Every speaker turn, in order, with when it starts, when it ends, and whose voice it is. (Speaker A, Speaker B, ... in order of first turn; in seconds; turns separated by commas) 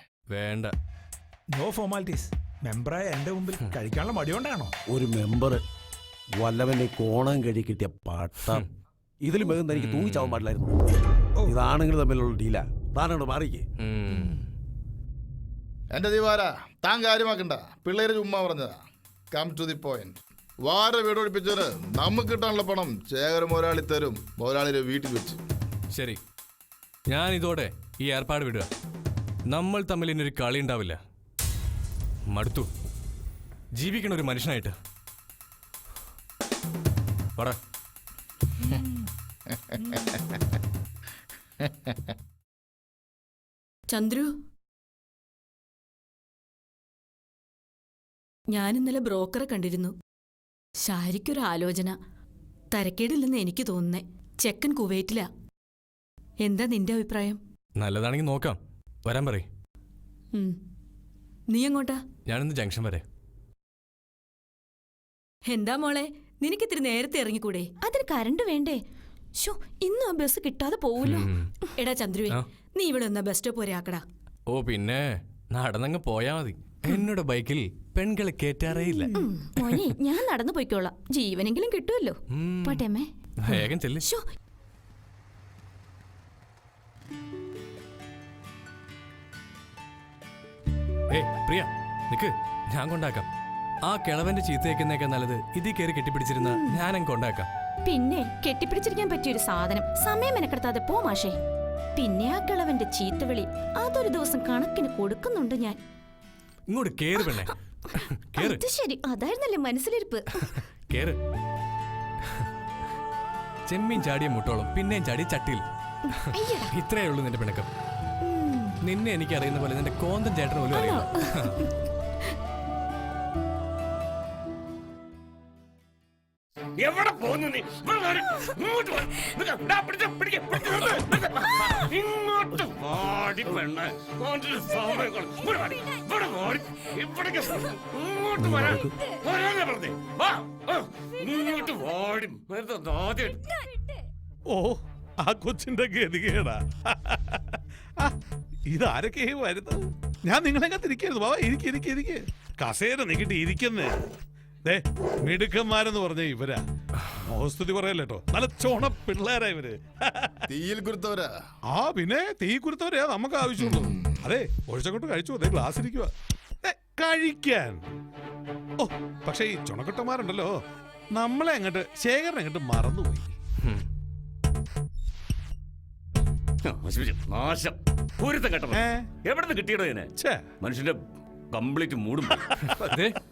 Speaker A: 0.3-0.7, Speaker B: 1.5-4.7, Speaker C: 4.9-5.6, Speaker C: 6.4-8.5, Speaker C: 9.2-10.7, Speaker A: 9.7-10.4, Speaker C: 11.5-13.6, Speaker A: 13.8-14.4, Speaker D: 15.9-18.8, Speaker D: 19.3-25.4, Speaker A: 25.9-26.2, Speaker A: 27.1-28.7, Speaker A: 29.5-31.0, Speaker A: 32.3-32.7, Speaker A: 33.8-34.7, Speaker E: 43.9-44.3, Speaker E: 48.5-49.9, Speaker E: 50.8-52.0, Speaker E: 52.7-55.3, Speaker E: 56.4-57.4, Speaker A: 57.8-59.5, Speaker E: 61.5-62.0, Speaker A: 62.3-63.0, Speaker E: 65.5-68.8, Speaker E: 69.4-74.0, Speaker A: 71.0-71.5, Speaker A: 74.5-79.8, Speaker E: 79.1-84.2, Speaker A: 82.3-82.8, Speaker A: 83.4-84.0, Speaker A: 91.1-93.3, Speaker A: 93.9-97.5, Speaker E: 96.4-96.8, Speaker E: 97.8-101.3, Speaker E: 102.0-105.8, Speaker A: 106.7-108.6, Speaker E: 108.3-110.6, Speaker A: 110.4-111.2, Speaker A: 113.7-115.6, Speaker E: 116.3-116.7, Speaker A: 116.7-117.7, Speaker E: 118.2-118.8, Speaker A: 118.8-121.6, Speaker E: 120.7-121.7, Speaker F: 126.8-143.4, Speaker C: 138.4-138.9, Speaker G: 144.5-148.1, Speaker G: 148.7-154.0, Speaker G: 154.6-156.6, Speaker G: 157.2-160.3, Speaker D: 160.5-161.3, Speaker G: 161.7-166.1, Speaker D: 163.6-164.2, Speaker G: 166.6-167.9, Speaker G: 168.8-170.6, Speaker G: 171.1-173.3, Speaker F: 176.6-180.1, Speaker G: 178.7-179.1, Speaker G: 180.2-180.4, Speaker F: 180.6-181.0, Speaker F: 181.5-182.8, Speaker A: 182.7-183.1